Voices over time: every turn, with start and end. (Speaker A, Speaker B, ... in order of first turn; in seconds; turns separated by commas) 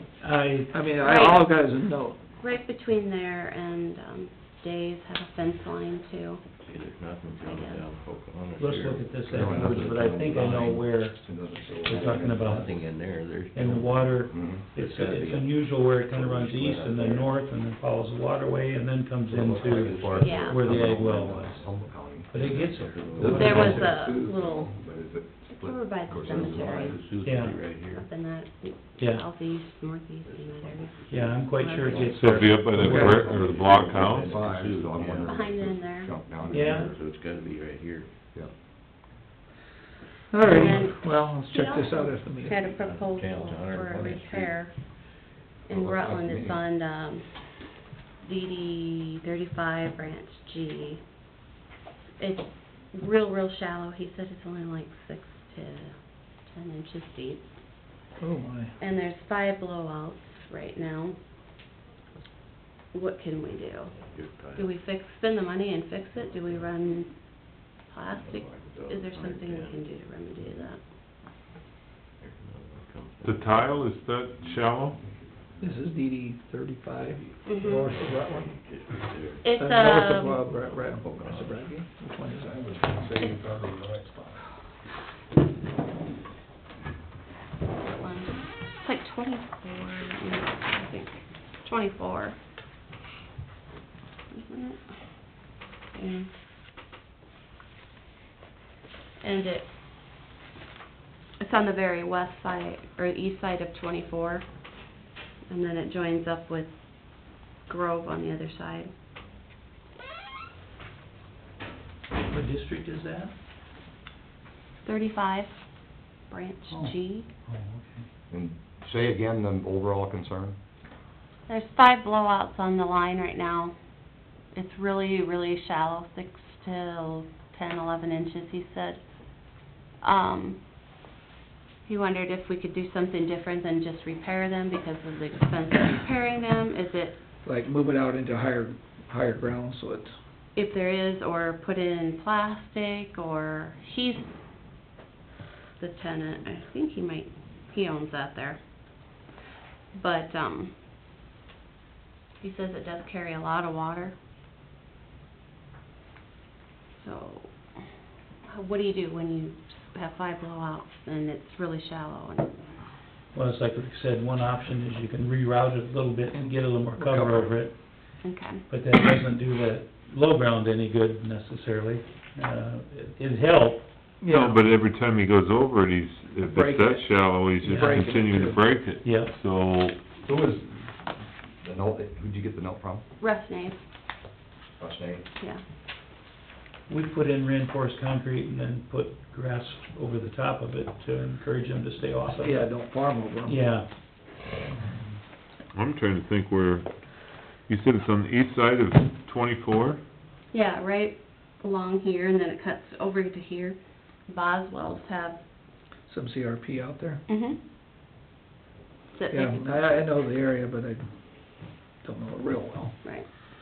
Speaker A: 0.2-0.7, Speaker B: 0.7-2.2, Speaker C: 1.0-1.5, Speaker C: 2.4-6.4, Speaker D: 6.5-10.7, Speaker C: 7.5-7.9, Speaker A: 8.6-12.7, Speaker E: 9.3-12.7, Speaker D: 12.0-17.3, Speaker A: 13.5-24.0, Speaker E: 14.3-14.6, Speaker E: 19.3-22.3, Speaker D: 19.5-21.7, Speaker C: 20.2-20.6, Speaker D: 22.3-23.7, Speaker E: 22.9-26.9, Speaker C: 23.2-24.7, Speaker C: 25.5-27.1, Speaker D: 26.1-28.1, Speaker A: 27.2-27.5, Speaker C: 27.7-32.4, Speaker A: 29.0-29.2, Speaker D: 30.2-32.0, Speaker A: 31.1-33.2, Speaker F: 32.1-34.3, Speaker E: 32.8-36.8, Speaker B: 32.8-33.2, Speaker D: 33.2-35.5, Speaker C: 35.2-36.2, Speaker D: 36.3-38.1, Speaker A: 36.5-36.9, Speaker B: 40.3-42.5, Speaker C: 40.4-44.8, Speaker D: 42.4-44.6, Speaker C: 45.6-47.7, Speaker E: 45.7-46.6, Speaker C: 48.2-51.0, Speaker C: 52.2-57.4, Speaker B: 58.2-58.7, Speaker C: 58.8-61.1, Speaker C: 62.9-64.0, Speaker D: 63.9-64.8, Speaker C: 64.5-70.8, Speaker D: 66.2-66.7, Speaker D: 68.1-70.7, Speaker D: 72.2-75.8, Speaker F: 73.2-75.0, Speaker B: 75.6-78.5, Speaker D: 76.9-79.5, Speaker C: 77.5-77.9, Speaker C: 79.4-80.4, Speaker B: 79.5-82.6, Speaker D: 80.3-81.8, Speaker E: 82.3-84.4, Speaker C: 87.8-92.3, Speaker C: 94.3-94.8, Speaker C: 95.9-96.3, Speaker C: 99.2-99.7, Speaker C: 101.4-104.4, Speaker C: 105.5-108.9, Speaker A: 112.3-113.3, Speaker C: 114.8-115.5, Speaker C: 116.3-117.2, Speaker A: 116.7-116.9, Speaker A: 117.5-118.0, Speaker E: 118.3-120.5, Speaker C: 121.5-123.7, Speaker C: 124.5-129.0, Speaker C: 130.0-130.6, Speaker C: 131.8-137.2, Speaker B: 137.4-140.1, Speaker C: 140.6-144.3, Speaker C: 145.8-149.2, Speaker C: 149.9-150.7, Speaker C: 152.4-154.1, Speaker C: 157.0-157.6, Speaker C: 158.5-162.5, Speaker A: 163.3-167.8, Speaker E: 167.0-167.5, Speaker C: 168.2-168.6, Speaker A: 168.7-173.8, Speaker B: 174.2-174.6, Speaker F: 174.2-180.0, Speaker B: 176.5-178.6, Speaker A: 177.6-178.0, Speaker A: 179.0-179.3, Speaker E: 180.2-180.9, Speaker E: 181.6-183.0, Speaker C: 183.2-183.8, Speaker E: 184.8-185.2, Speaker A: 186.9-192.6, Speaker B: 192.4-193.7, Speaker A: 193.4-193.9, Speaker F: 195.7-196.9, Speaker F: 197.7-200.0, Speaker C: 200.5-203.8, Speaker C: 204.3-205.4, Speaker B: 206.1-207.2, Speaker C: 207.3-207.6, Speaker C: 209.1-209.8, Speaker B: 209.3-211.1, Speaker B: 212.0-212.9